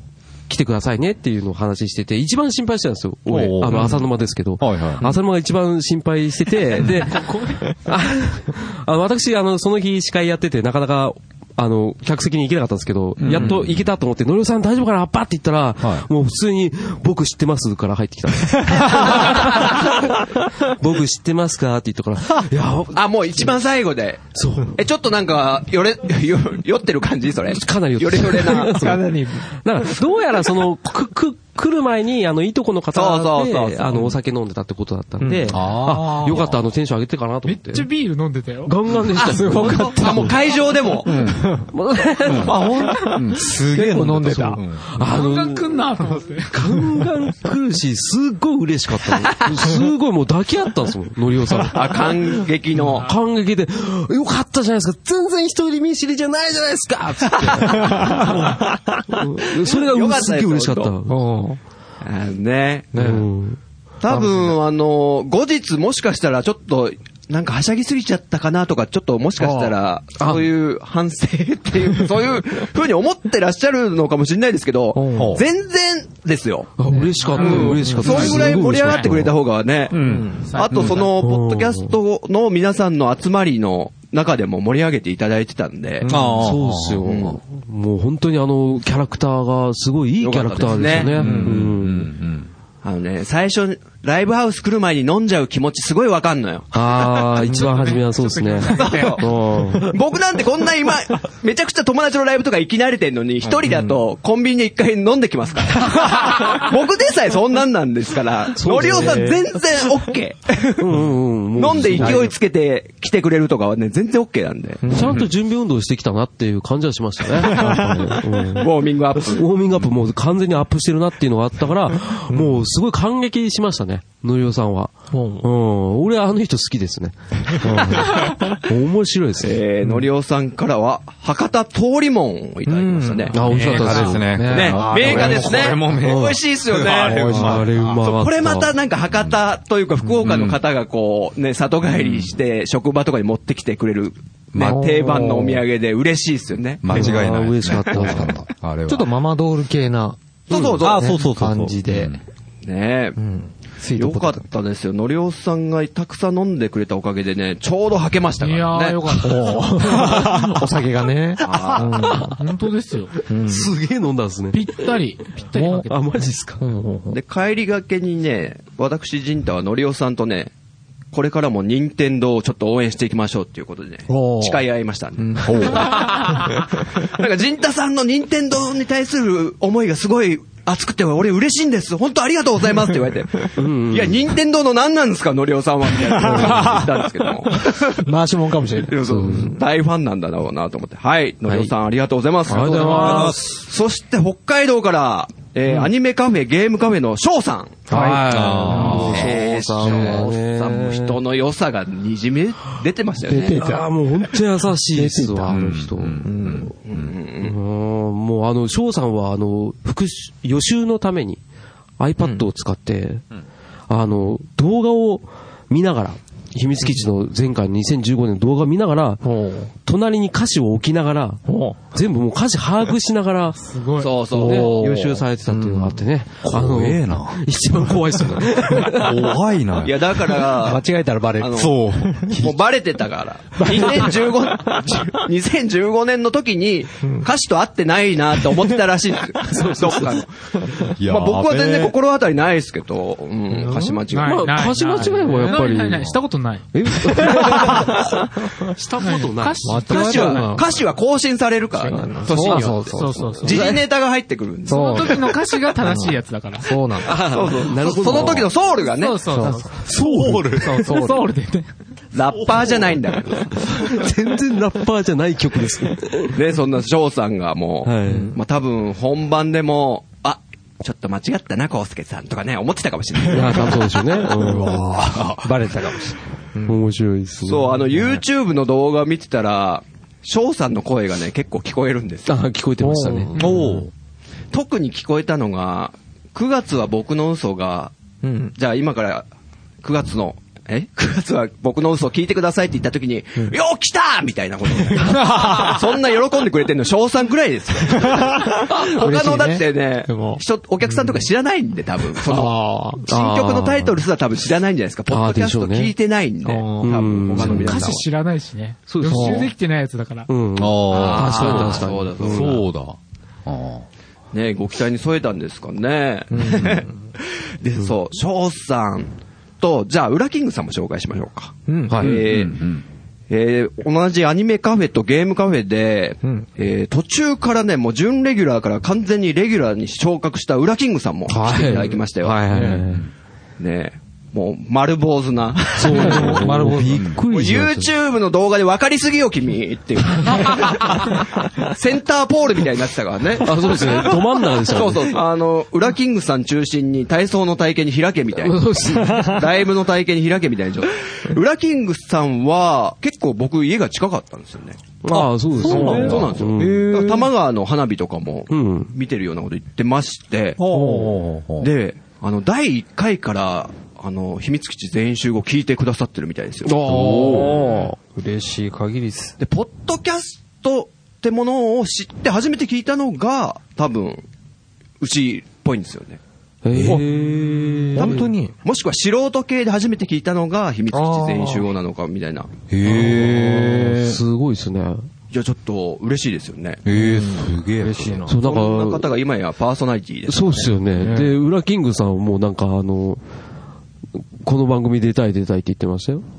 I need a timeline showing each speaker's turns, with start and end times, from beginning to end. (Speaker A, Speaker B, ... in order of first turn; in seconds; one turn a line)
Speaker A: 0.5-23.5
Speaker B: 3.3-5.0
Speaker B: 13.2-13.9
Speaker B: 15.8-16.1
Speaker C: 18.7-20.7
Speaker D: 22.9-28.9
Speaker A: 24.3-24.8
Speaker A: 27.5-37.9
Speaker C: 28.6-29.5
Speaker D: 32.9-34.1
Speaker C: 35.2-35.6
Speaker B: 35.5-36.6
Speaker E: 37.5-38.7
Speaker A: 38.6-40.3
Speaker D: 39.2-41.3
Speaker C: 39.2-40.3
Speaker B: 41.0-41.6
Speaker C: 41.2-41.7
Speaker A: 41.7-42.9
Speaker B: 42.2-44.8
Speaker C: 42.3-44.6
Speaker A: 44.8-45.8
Speaker E: 45.0-46.8
Speaker A: 46.5-52.1
Speaker D: 51.7-53.1
Speaker A: 52.9-61.2
Speaker D: 57.4-57.8
Speaker C: 57.8-59.0
Speaker D: 59.6-61.0
Speaker C: 61.1-61.6
Speaker D: 62.0-63.1
Speaker C: 62.9-63.3
Speaker A: 62.9-63.6
Speaker D: 64.0-86.1
Speaker C: 69.4-69.7
Speaker A: 70.2-70.5
Speaker C: 74.9-75.4
Speaker B: 75.1-75.4
Speaker A: 76.8-79.3
Speaker E: 77.2-79.1
Speaker C: 77.8-78.2
Speaker B: 79.9-81.0
Speaker C: 80.0-80.5
Speaker E: 80.4-81.1
Speaker A: 81.2-81.9
Speaker C: 86.0-86.4
Speaker B: 86.1-87.3
Speaker A: 86.2-92.1
Speaker D: 87.0-87.4
Speaker D: 90.2-91.6
Speaker B: 90.8-92.5
Speaker D: 92.8-97.5
Speaker A: 96.7-100.0
Speaker E: 97.4-99.2
Speaker D: 98.7-111.0
Speaker A: 108.5-109.4
Speaker C: 108.8-109.3
Speaker A: 110.8-112.3
Speaker D: 111.5-114.8
Speaker C: 114.8-115.2
Speaker A: 114.9-129.6
Speaker B: 114.9-115.3
Speaker C: 117.4-118.2
Speaker D: 118.5-119.5
Speaker C: 122.3-122.6
Speaker C: 125.1-125.5
Speaker D: 129.4-133.3
Speaker C: 132.7-135.8
Speaker A: 133.3-134.4
Speaker B: 133.4-138.0
Speaker D: 134.4-147.1
Speaker A: 135.1-135.4
Speaker A: 136.0-136.4
Speaker C: 137.1-137.6
Speaker A: 137.2-138.7
Speaker B: 140.2-140.6
Speaker B: 144.5-144.9
Speaker C: 144.6-145.6
Speaker B: 146.8-149.1
Speaker A: 146.9-148.4
Speaker C: 146.9-147.2
Speaker D: 147.9-148.2
Speaker C: 148.9-150.2
Speaker D: 150.5-151.2
Speaker B: 150.6-152.2
Speaker C: 150.8-152.1
Speaker D: 152.6-153.2
Speaker C: 153.2-154.4
Speaker D: 153.9-159.2
Speaker E: 158.4-160.5
Speaker C: 159.2-162.4
Speaker D: 161.4-162.2
Speaker A: 162.0-162.3
Speaker E: 162.4-163.1
Speaker C: 163.3-163.7
Speaker A: 163.4-164.9
Speaker E: 164.5-165.9
Speaker A: 165.5-166.6
Speaker C: 165.6-165.9
Speaker C: 166.6-167.2
Speaker D: 167.1-170.5
Speaker D: 171.1-188.1
Speaker C: 174.1-174.6
Speaker C: 175.2-176.6
Speaker B: 175.4-176.1
Speaker A: 183.5-184.2
Speaker C: 186.0-189.6
Speaker D: 188.8-197.8
Speaker A: 189.1-189.5
Speaker A: 191.5-191.7
Speaker A: 192.4-193.6
Speaker C: 192.5-193.3
Speaker B: 192.8-193.5
Speaker C: 197.9-200.1
Speaker A: 197.9-201.2
Speaker B: 198.2-199.4
Speaker D: 198.7-203.6
Speaker C: 203.2-203.9
Speaker A: 203.2-206.5
Speaker C: 204.9-205.6
Speaker B: 205.5-207.1
Speaker C: 206.2-206.7
Speaker D: 206.7-207.6
Speaker A: 207.4-211.4
Speaker A: 212.0-213.2
Speaker C: 212.2-212.4
Speaker A: 213.9-219.2
Speaker C: 219.2-219.7
Speaker A: 219.8-223.6
Speaker C: 221.4-221.8
Speaker E: 223.6-224.1
Speaker D: 224.0-225.2
Speaker A: 224.3-229.3
Speaker C: 224.3-226.0
Speaker B: 226.4-227.4
Speaker B: 228.1-230.2
Speaker D: 229.8-230.8
Speaker C: 230.5-232.3
Speaker D: 231.4-231.8
Speaker B: 231.4-232.6
Speaker D: 232.3-244.5
Speaker C: 233.6-235.0
Speaker C: 237.0-237.3
Speaker A: 239.4-240.2
Speaker B: 240.9-241.9
Speaker C: 243.5-244.0
Speaker E: 244.1-247.2
Speaker A: 244.2-246.2
Speaker A: 246.7-250.4
Speaker C: 247.1-248.0
Speaker E: 249.0-250.4
Speaker C: 249.6-250.7
Speaker D: 249.8-255.3
Speaker C: 251.7-253.8
Speaker A: 252.4-252.7
Speaker E: 252.9-253.8
Speaker A: 253.5-253.7
Speaker C: 254.7-255.2
Speaker E: 254.7-256.8
Speaker C: 255.8-257.2
Speaker A: 257.0-258.5
Speaker D: 257.1-259.2
Speaker E: 258.8-261.7
Speaker C: 259.3-261.3
Speaker B: 259.8-261.1
Speaker D: 262.1-264.1
Speaker A: 263.6-266.4
Speaker D: 266.3-274.0
Speaker A: 267.8-268.4
Speaker C: 268.1-268.4
Speaker A: 273.3-274.9
Speaker C: 273.4-276.8
Speaker A: 276.6-277.8
Speaker D: 277.4-282.4
Speaker A: 282.2-283.3
Speaker C: 282.8-283.8
Speaker B: 283.3-283.9
Speaker D: 284.5-287.9
Speaker C: 288.2-288.5
Speaker D: 288.6-289.3
Speaker D: 289.8-308.1
Speaker C: 294.9-295.8
Speaker C: 297.8-301.2
Speaker C: 302.1-303.1
Speaker A: 303.1-304.0
Speaker A: 305.1-305.9
Speaker C: 306.4-307.4
Speaker A: 306.8-307.9
Speaker E: 307.4-310.3
Speaker A: 308.9-309.5
Speaker C: 309.1-309.5
Speaker A: 310.3-312.6
Speaker B: 310.6-313.8
Speaker D: 310.9-312.6
Speaker D: 314.3-322.7
Speaker C: 316.3-316.9
Speaker C: 321.7-322.2
Speaker A: 321.9-322.2
Speaker B: 321.9-322.8
Speaker D: 323.3-332.7
Speaker A: 331.3-333.1
Speaker B: 332.5-333.1
Speaker C: 332.5-332.8
Speaker D: 333.6-336.4
Speaker A: 335.8-337.9
Speaker C: 335.9-337.1
Speaker B: 335.9-337.2
Speaker D: 337.2-354.9
Speaker A: 343.4-345.2
Speaker A: 348.4-349.4
Speaker A: 355.0-356.9
Speaker B: 355.1-357.3
Speaker D: 355.5-360.6
Speaker C: 355.7-356.0
Speaker A: 358.5-358.9
Speaker B: 360.6-361.7
Speaker C: 360.7-361.1
Speaker D: 361.6-366.9
Speaker A: 366.6-367.9
Speaker B: 366.9-367.8
Speaker C: 367.0-369.4
Speaker D: 369.4-374.2
Speaker D: 375.0-376.2
Speaker A: 376.6-378.3
Speaker B: 376.7-378.2
Speaker C: 376.9-378.6
Speaker D: 377.9-382.5
Speaker C: 380.9-381.7
Speaker B: 382.7-384.2
Speaker A: 382.8-385.0
Speaker D: 385.3-386.8
Speaker B: 386.9-388.3
Speaker C: 386.9-388.4
Speaker A: 388.2-389.1
Speaker D: 388.3-390.8
Speaker A: 390.3-393.2
Speaker C: 391.0-391.3
Speaker A: 394.4-396.2